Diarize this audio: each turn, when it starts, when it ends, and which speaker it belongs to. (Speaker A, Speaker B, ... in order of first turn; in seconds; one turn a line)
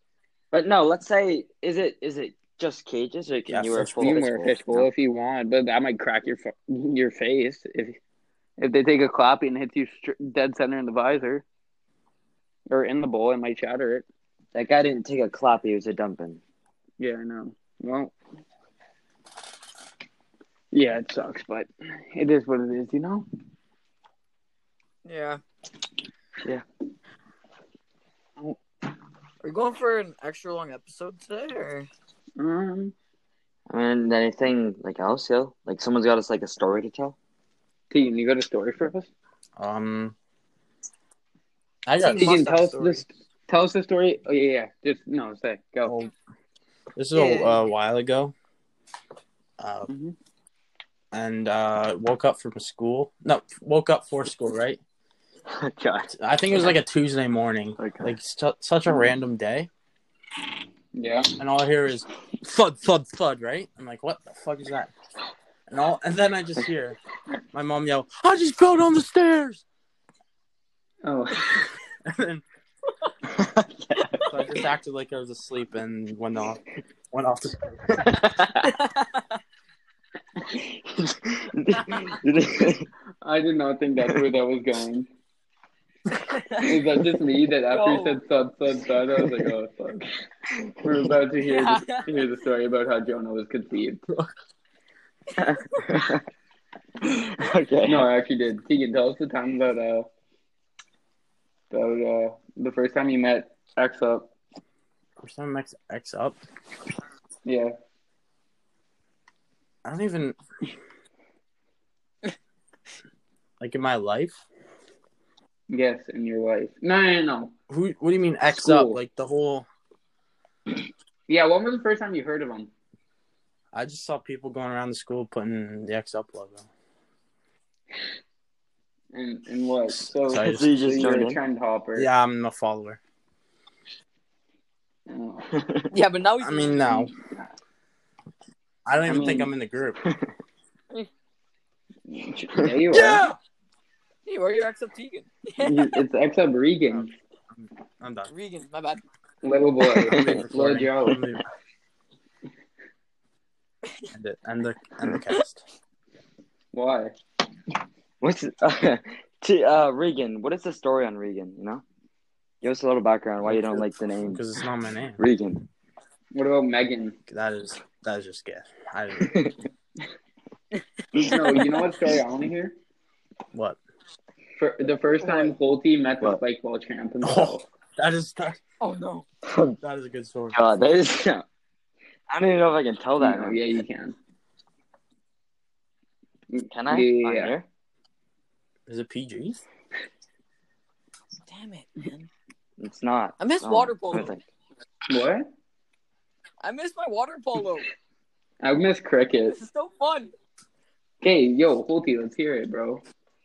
Speaker A: 0.5-4.9
Speaker B: 3.5-4.2
Speaker C: 4.0-8.0
Speaker C: 8.6-11.4
Speaker C: 12.7-14.0
Speaker A: 14.5-16.4
Speaker C: 17.0-18.1
Speaker C: 20.7-23.2
Speaker D: 25.0-25.4
Speaker D: 29.4-31.9
Speaker C: 32.4-32.9
Speaker A: 33.7-37.1
Speaker C: 37.9-39.1
Speaker B: 39.6-40.1
Speaker B: 41.9-42.4
Speaker D: 42.0-43.0
Speaker C: 42.1-46.0
Speaker B: 45.8-46.1
Speaker B: 47.0-48.3
Speaker D: 47.1-47.6
Speaker B: 49.6-49.9
Speaker C: 49.9-50.1
Speaker B: 51.1-54.8
Speaker A: 55.5-56.8
Speaker B: 56.1-59.7
Speaker A: 57.8-58.1
Speaker C: 60.9-61.3
Speaker B: 61.4-64.9
Speaker B: 65.7-67.0
Speaker B: 67.5-69.6
Speaker C: 71.0-71.7
Speaker B: 72.0-72.4
Speaker A: 73.2-74.4
Speaker B: 74.2-78.0
Speaker A: 77.9-78.7
Speaker D: 78.8-79.2
Speaker A: 80.5-82.9
Speaker C: 83.2-85.1
Speaker D: 86.3-86.7
Speaker C: 86.6-90.1
Speaker D: 87.7-88.2
Speaker A: 90.5-91.0
Speaker C: 90.8-94.0
Speaker D: 91.5-92.1
Speaker A: 95.4-96.2
Speaker A: 97.0-98.1
Speaker C: 97.8-100.1
Speaker C: 101.7-104.3
Speaker B: 105.2-106.4
Speaker C: 107.5-107.7
Speaker B: 109.8-110.3
Speaker B: 113.6-114.4
Speaker C: 115.7-117.5
Speaker B: 117.7-119.7
Speaker C: 118.5-119.0
Speaker C: 121.3-122.7
Speaker B: 123.7-126.7
Speaker C: 129.1-132.1
Speaker B: 130.3-130.7
Speaker A: 130.3-131.4
Speaker B: 131.9-133.0
Speaker C: 135.1-135.5
Speaker A: 135.5-135.9
Speaker D: 135.9-137.1
Speaker B: 136.4-137.1
Speaker B: 138.8-140.0
Speaker C: 139.0-139.5
Speaker A: 140.0-140.3
Speaker C: 142.1-143.2
Speaker B: 142.9-143.3
Speaker D: 144.2-145.9
Speaker C: 145.6-147.1
Speaker B: 146.9-148.3
Speaker D: 148.3-149.0
Speaker C: 149.4-151.2
Speaker A: 149.8-150.4
Speaker B: 150.1-151.4
Speaker B: 154.1-155.6
Speaker C: 156.7-157.1
Speaker A: 158.2-161.8
Speaker A: 162.6-164.4
Speaker B: 163.4-165.2
Speaker A: 165.2-165.7
Speaker C: 166.3-167.2
Speaker B: 167.3-169.4
Speaker A: 169.2-169.6
Speaker C: 171.2-172.7
Speaker B: 173.5-173.8
Speaker C: 174.6-177.7
Speaker D: 175.2-175.5
Speaker B: 177.2-178.6
Speaker D: 178.8-179.2
Speaker A: 179.4-179.8
Speaker B: 179.8-180.6
Speaker A: 180.5-181.4
Speaker A: 182.3-183.6
Speaker C: 183.2-184.2
Speaker C: 186.5-187.6
Speaker A: 186.7-187.7
Speaker B: 188.9-189.6
Speaker D: 191.5-192.3
Speaker A: 192.8-194.4
Speaker D: 193.4-194.3
Speaker C: 195.1-195.5
Speaker D: 196.6-197.9
Speaker C: 198.6-199.6
Speaker D: 199.5-200.3
Speaker C: 201.2-203.0